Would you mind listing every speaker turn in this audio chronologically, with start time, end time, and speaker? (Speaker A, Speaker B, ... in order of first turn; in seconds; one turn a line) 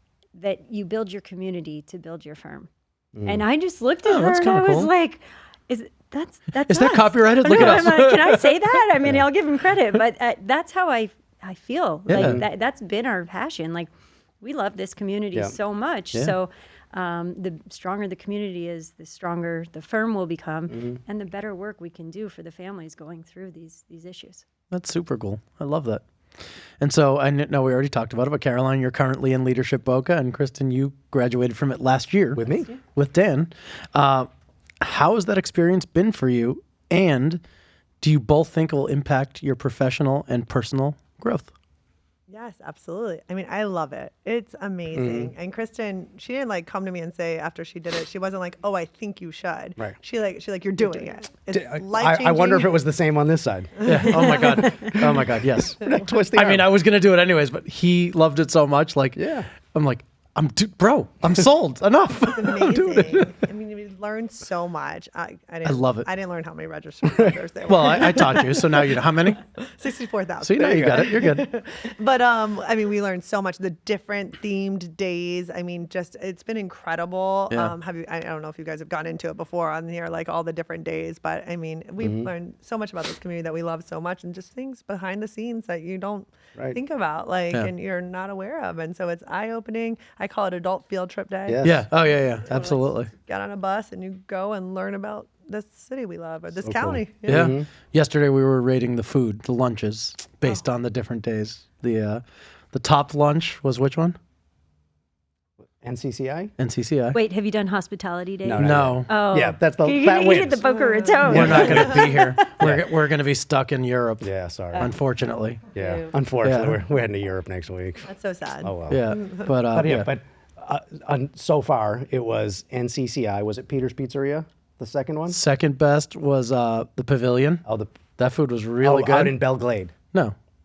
Speaker A: 0.3-2.7
Speaker B: 3.1-3.4
Speaker A: 3.2-13.9
Speaker C: 4.0-4.9
Speaker C: 6.5-8.6
Speaker C: 12.1-12.4
Speaker B: 12.1-12.4
Speaker A: 14.4-24.4
Speaker B: 20.7-21.0
Speaker C: 24.7-26.0
Speaker C: 26.8-34.3
Speaker B: 32.4-32.7
Speaker C: 34.8-37.4
Speaker C: 38.0-41.5
Speaker D: 42.3-52.8
Speaker B: 44.9-45.3
Speaker B: 51.5-56.7
Speaker D: 53.8-54.6
Speaker C: 53.8-63.3
Speaker B: 59.1-59.5
Speaker D: 62.3-69.0
Speaker C: 65.6-66.1
Speaker C: 67.6-69.4
Speaker D: 69.5-91.6
Speaker C: 70.4-71.5
Speaker B: 70.6-71.0
Speaker B: 82.0-82.3
Speaker B: 91.5-91.8
Speaker C: 91.6-93.1
Speaker D: 92.5-97.5
Speaker B: 96.6-97.7
Speaker C: 97.3-104.2
Speaker B: 105.8-106.5
Speaker C: 106.6-107.2
Speaker A: 107.1-112.3
Speaker B: 108.4-110.7
Speaker C: 108.5-109.1
Speaker D: 110.6-112.1
Speaker B: 111.2-112.8
Speaker C: 111.3-115.7
Speaker B: 114.2-114.9
Speaker B: 115.7-119.1
Speaker C: 116.4-116.8
Speaker D: 118.0-119.5
Speaker C: 118.9-120.1
Speaker B: 119.7-125.4
Speaker C: 125.3-127.6
Speaker B: 127.6-127.9
Speaker C: 128.2-129.4
Speaker B: 128.8-129.9